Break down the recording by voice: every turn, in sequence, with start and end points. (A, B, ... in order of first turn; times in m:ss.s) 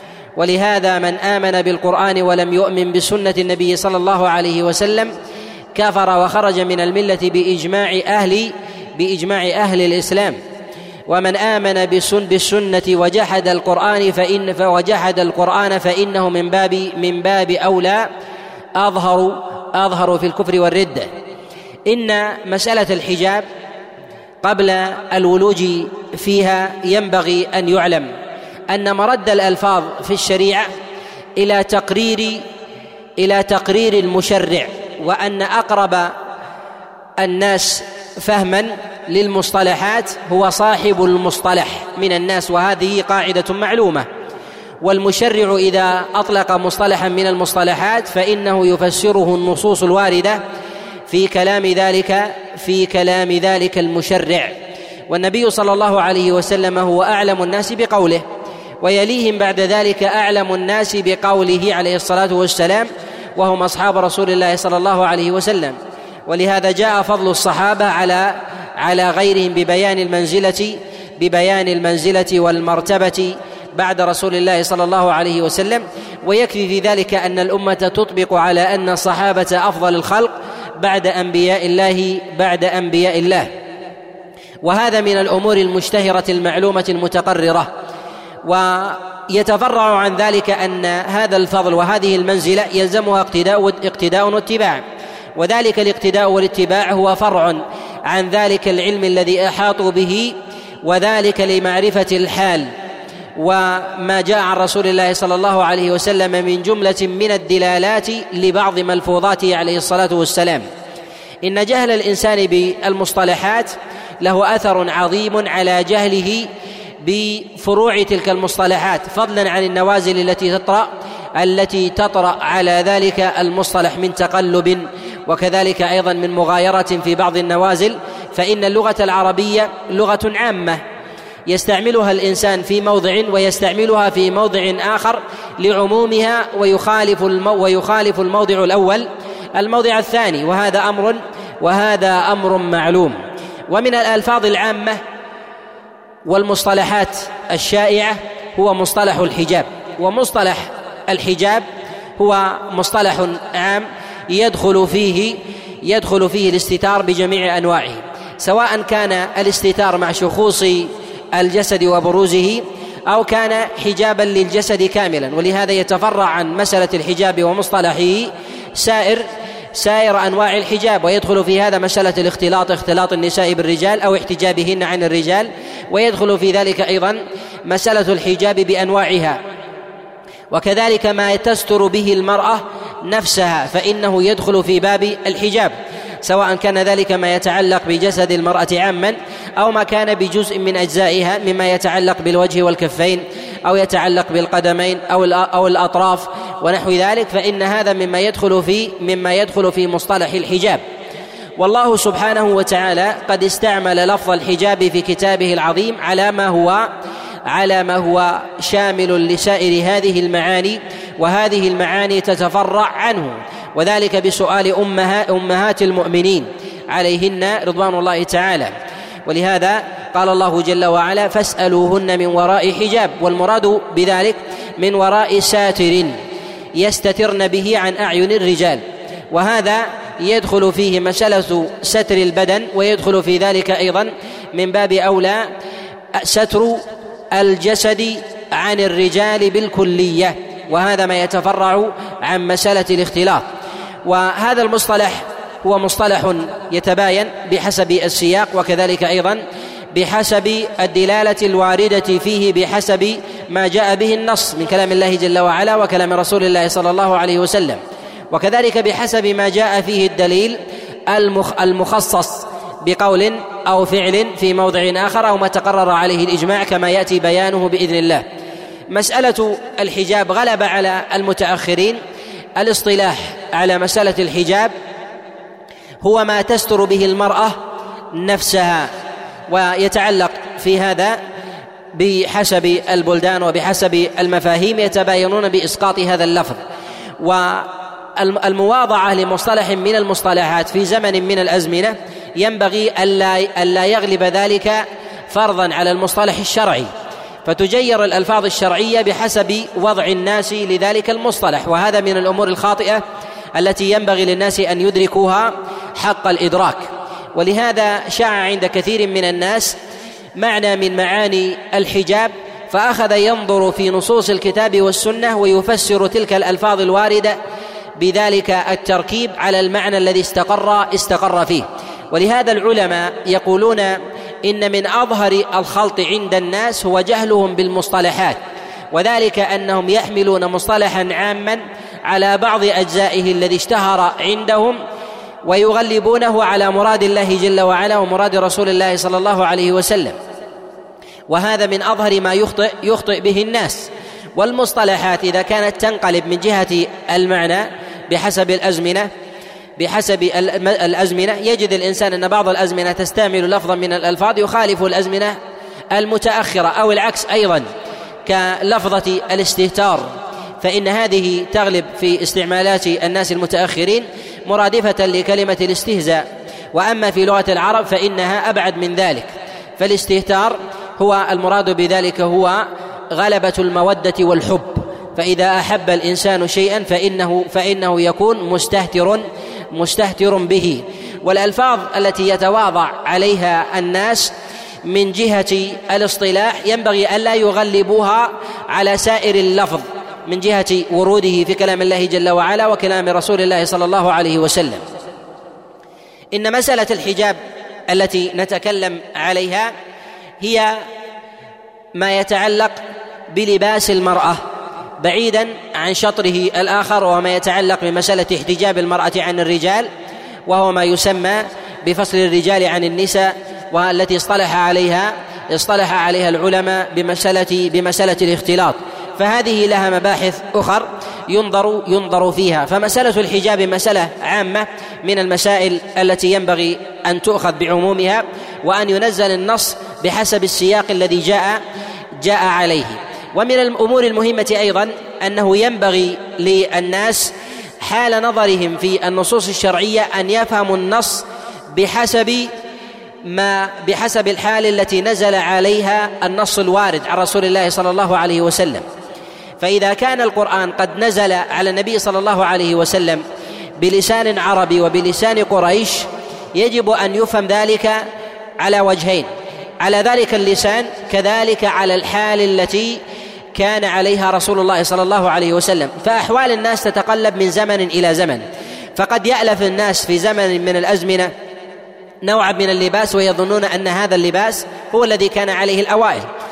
0:00.4-0:05.1 A
0:05.8-0:10.4 A
0:11.1-0:18.1 A
0:18.8-0:21.1 A
0:21.9-0:23.4 A
0:24.4-0:28.1 A
0:28.7-0:30.7 A
0:31.4-0:32.4 A
0:33.2-0:36.1 A
0:37.2-0:44.0 A
0:44.8-0:50.4 A
0:51.1-0:54.6 A
0:55.1-0:58.2 A
0:58.8-1:05.8 A
1:06.3-1:23.5 A
1:24.6-1:27.7 A
1:28.4-1:34.8 A
1:35.4-1:42.7 A
1:43.4-1:50.6 A
1:51.4-1:56.5 A
1:57.0-2:10.8 A
2:11.5-2:23.2 A
2:23.7-2:25.0 A
2:26.3-2:31.6 A
2:32.2-2:59.4 A
3:00.5-3:05.7 A
3:06.2-3:20.8 A
3:21.6-3:26.9 A
3:27.5-3:38.7 A
3:39.2-3:46.2 A
3:46.8-3:55.4 A
3:56.2-3:56.8 A
3:57.3-4:03.4 A
4:04.1-4:09.4 A
4:09.9-4:17.8 A
4:18.3-4:28.2 A
4:28.9-4:32.0 A
4:32.6-4:34.7 A
4:36.0-4:37.6 A
4:38.1-4:38.9 A
4:39.5-4:41.2 A
4:41.9-4:46.6 A
4:47.2-4:56.9 A
4:57.4-5:03.0 A
5:03.6-5:09.8 A
5:10.4-5:17.3 A
5:18.0-5:28.4 A
5:28.9-5:34.8 A
5:35.4-5:40.2 A
5:41.3-5:49.1 A
5:49.8-5:55.4 A
5:55.9-5:57.7 A
5:58.3-6:00.1 A
6:00.6-6:24.3 A
6:24.8-6:34.8 A
6:36.3-6:37.4 A
6:37.9-6:39.7 A
6:40.4-6:40.8 A
6:42.0-6:42.8 A
6:43.3-6:44.4 A
6:45.0-6:49.9 A
6:50.5-7:11.6 A
7:12.2-7:22.5 A
7:23.3-7:28.8 A
7:29.6-7:33.2 A
7:33.8-7:38.0 A
7:38.6-7:39.3 A
7:39.8-7:43.0 A
7:43.6-7:48.4 A
7:49.0-7:51.3 A
7:52.2-7:56.3 A